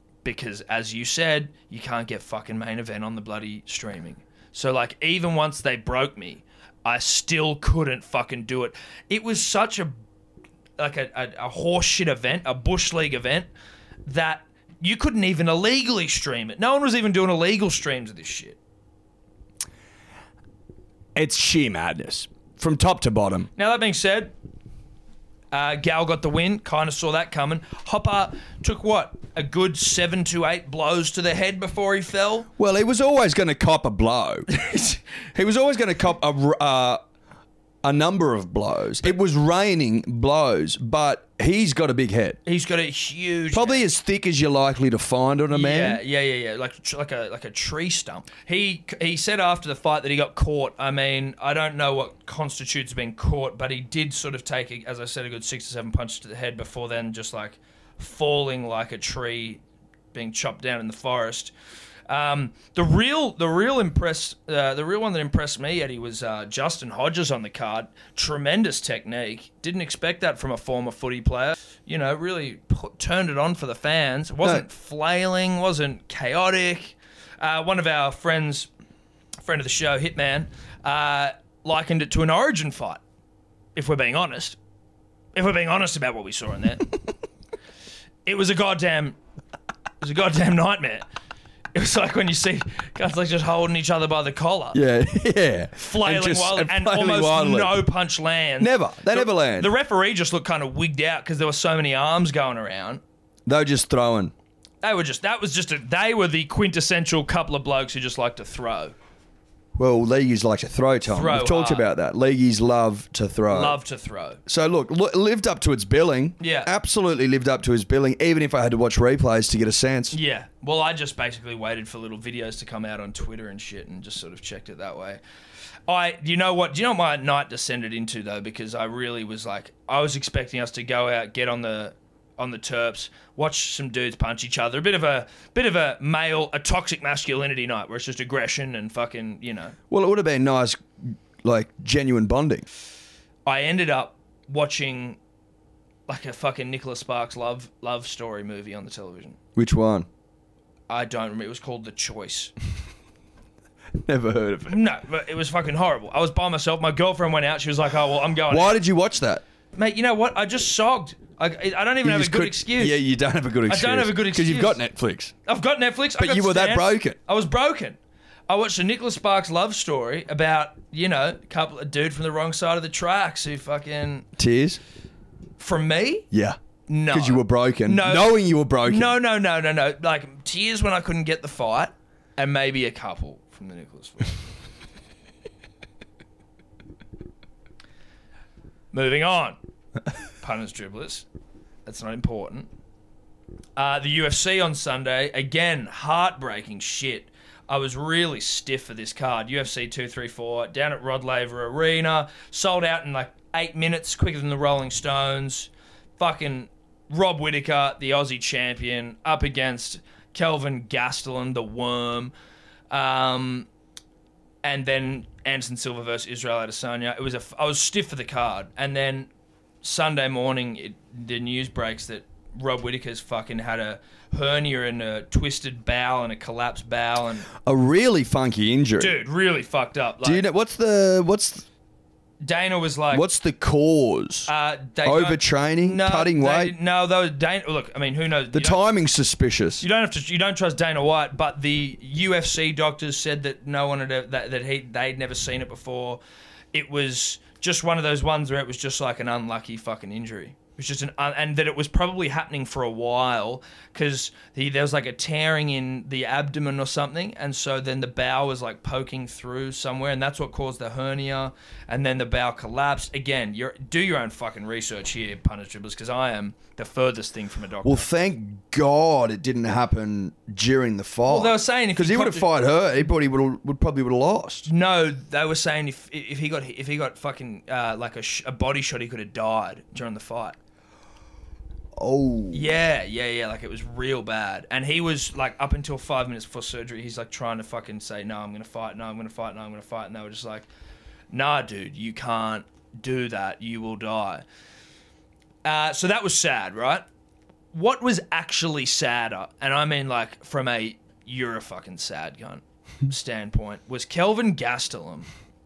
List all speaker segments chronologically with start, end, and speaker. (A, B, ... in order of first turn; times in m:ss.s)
0:00.2-0:09.9 A
0:10.8-0:13.5 A
0:14.0-0:18.6 A
0:21.2-0:23.5 B
0:23.6-0:24.3 A
0:25.5-0:32.5 A
0:32.6-0:34.5 B
0:34.5-0:35.0 A
0:35.3-0:37.0 B
0:37.8-0:42.4 B
0:42.5-0:43.9 A
0:43.5-0:46.0 B
0:45.5-0:59.6 A
1:00.1-1:01.5 A
1:02.1-1:18.7 A
1:19.4-1:23.0 A
1:23.8-1:24.6 A
1:25.3-1:26.9 A
1:28.2-1:29.2 A
1:30.0-1:31.0 A
1:31.7-1:34.8 A
1:34.7-1:37.8 B
1:35.8-1:43.0 A
1:38.6-1:39.7 B
1:43.5-1:44.3 B
1:44.8-1:49.0 A
1:49.8-1:53.8 B
1:51.1-1:51.9 A
1:53.5-1:54.4 A
1:54.5-2:00.2 B
1:56.4-1:56.7 A
2:00.1-2:05.2 A
2:05.9-2:19.8 A
2:19.9-2:22.7 B
2:23.5-2:25.2 A
2:26.1-2:29.4 A
2:29.6-2:30.1 B
2:30.9-2:32.5 A
2:34.0-2:34.8 B
2:34.7-2:38.8 A
2:38.5-2:39.4 B
2:39.8-2:43.0 A
2:42.0-2:45.3 B
2:43.7-2:44.8 A
2:45.5-2:54.3 A
2:46.2-2:47.2 B
2:54.4-2:54.8 B
2:55.6-2:56.3 A
2:56.3-2:56.6 B
2:56.9-3:04.4 A
2:57.1-2:59.1 B
3:08.9-3:09.6 A
3:10.4-3:11.3 A
3:11.9-3:12.7 A
3:13.8-3:32.3 A
3:32.9-3:33.7 A
3:34.6-3:39.3 A
3:39.8-3:47.5 A
3:47.6-3:49.2 B
3:49.0-3:50.4 A
3:50.2-3:51.6 B
3:52.4-3:53.2 A
3:53.1-3:54.5 B
3:54.5-3:58.8 A
3:55.0-3:56.8 B
3:58.5-3:59.8 B
3:59.8-4:06.2 A
4:06.7-4:28.1 A
4:27.8-4:34.7 B
4:31.3-4:32.5 A
4:34.7-4:40.6 A
4:42.0-4:42.7 B
4:42.5-4:50.7 A
4:51.3-4:54.4 A
4:55.6-4:57.0 A
4:57.7-5:05.3 A